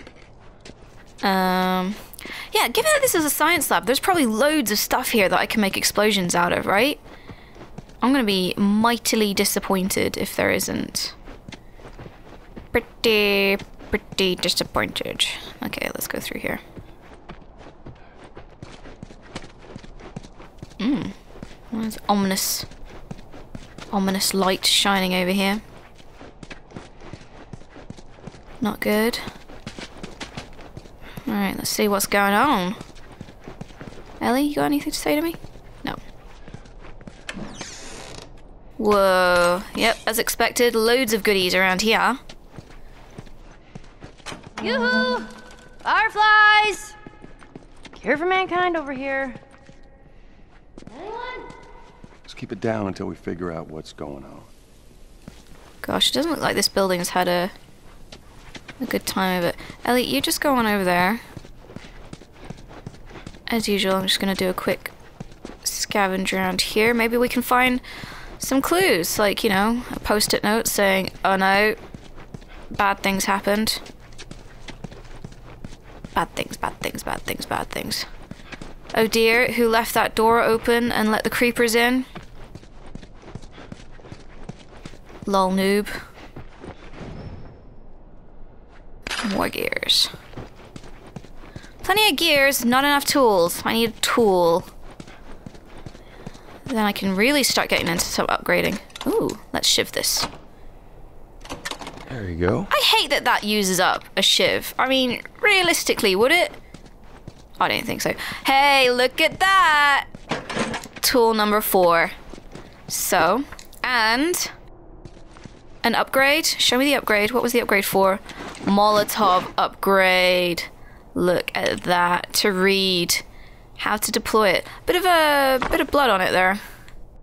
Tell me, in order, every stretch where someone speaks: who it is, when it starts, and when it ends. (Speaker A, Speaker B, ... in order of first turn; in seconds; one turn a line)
Speaker A: 1.2-7.0
Speaker A: 8.0-11.2
Speaker A: 12.7-16.6
Speaker A: 20.8-21.1
Speaker A: 21.7-22.7
Speaker A: 23.9-25.6
Speaker A: 28.6-29.2
Speaker A: 31.2-32.8
Speaker A: 34.2-36.0
Speaker A: 38.8-42.2
Speaker B: 44.6-45.3
Speaker B: 45.8-47.0
Speaker B: 48.0-49.4
Speaker B: 50.9-51.5
Speaker C: 52.3-54.5
Speaker A: 55.8-57.5
Speaker A: 58.8-61.2
Speaker A: 63.5-64.9
Speaker A: 65.6-67.8
Speaker A: 68.4-71.8
Speaker A: 72.7-73.8
Speaker A: 76.1-78.1
Speaker A: 78.9-82.1
Speaker A: 85.2-86.0
Speaker A: 89.2-90.1
Speaker A: 91.8-94.7
Speaker A: 96.7-100.3
Speaker C: 102.1-102.7
Speaker A: 102.7-106.6
Speaker A: 107.6-110.1
Speaker A: 111.0-112.1
Speaker A: 112.9-114.5
Speaker A: 115.8-123.2
Speaker A: 123.8-126.6